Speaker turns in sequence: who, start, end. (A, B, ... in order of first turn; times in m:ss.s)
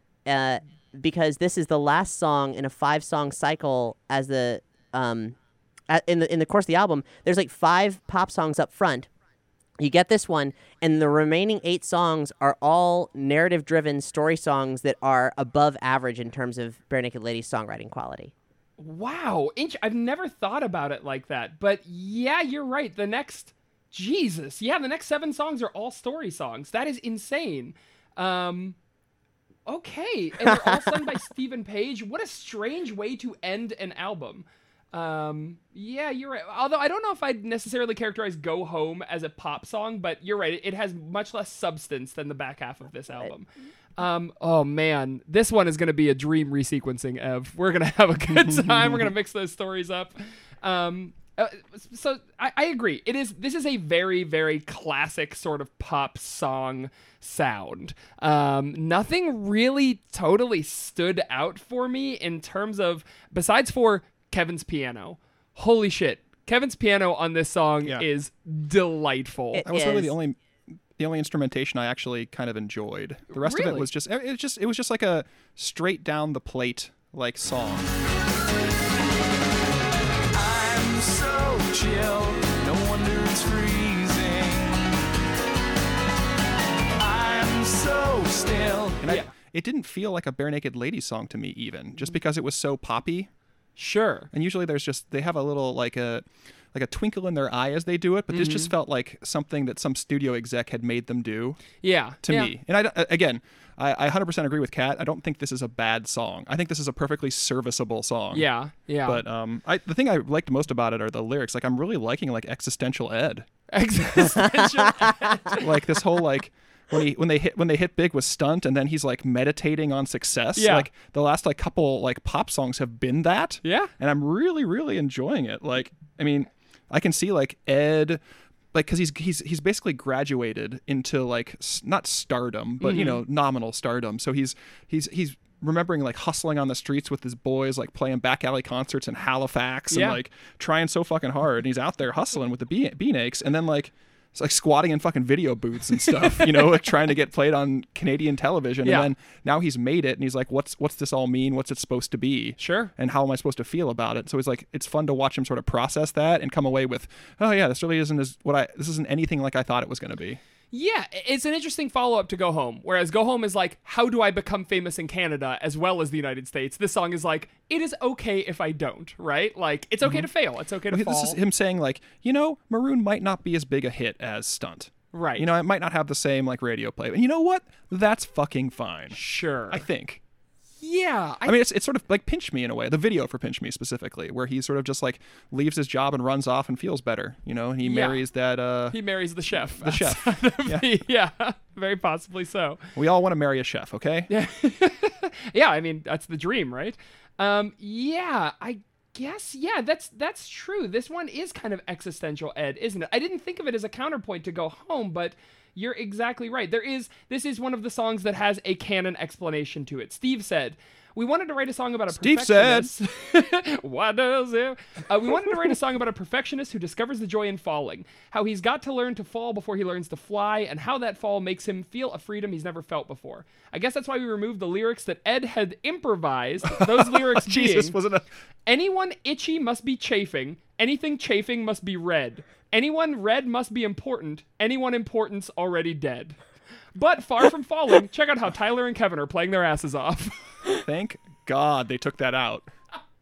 0:00.3-0:05.4 A
0:05.9-0:09.1 A
0:09.8-0:18.3 A
0:18.8-0:28.8 B
0:29.7-1:09.7 B
0:30.5-0:30.8 A
0:48.5-0:49.0 C
1:09.5-1:10.2 A
1:09.7-1:10.4 C
1:11.0-1:17.9 C
1:13.3-1:13.9 B
1:20.3-1:24.9 D
1:27.0-1:29.0 D
1:29.0-1:33.3 C
1:33.8-1:34.3 B
1:34.3-1:48.5 C
1:38.3-1:38.7 B
1:41.8-1:42.5 B
1:48.3-1:49.2 B
1:49.1-1:53.5 C
1:53.7-1:55.7 B
1:55.5-2:08.2 C
2:00.6-2:00.9 B
2:03.6-2:03.9 B
2:08.7-2:40.4 C
2:12.8-2:13.2 B
2:19.9-2:20.2 B
2:28.8-2:29.1 B
2:32.6-2:32.9 B
2:40.7-2:51.4 B
2:50.9-2:59.2 C
2:55.1-2:55.5 B
2:59.1-2:59.8 B
2:59.7-3:00.2 C
3:00.8-3:01.6 B
3:01.4-3:09.0 C
3:07.8-3:08.2 B
3:08.9-3:12.8 B
3:09.8-3:10.9 C
3:13.0-3:14.3 C
3:14.3-3:48.0 B
3:32.1-3:32.9 C
3:46.7-3:48.3 C
3:48.7-3:56.4 B
3:57.0-4:00.8 B
4:00.8-4:02.7 C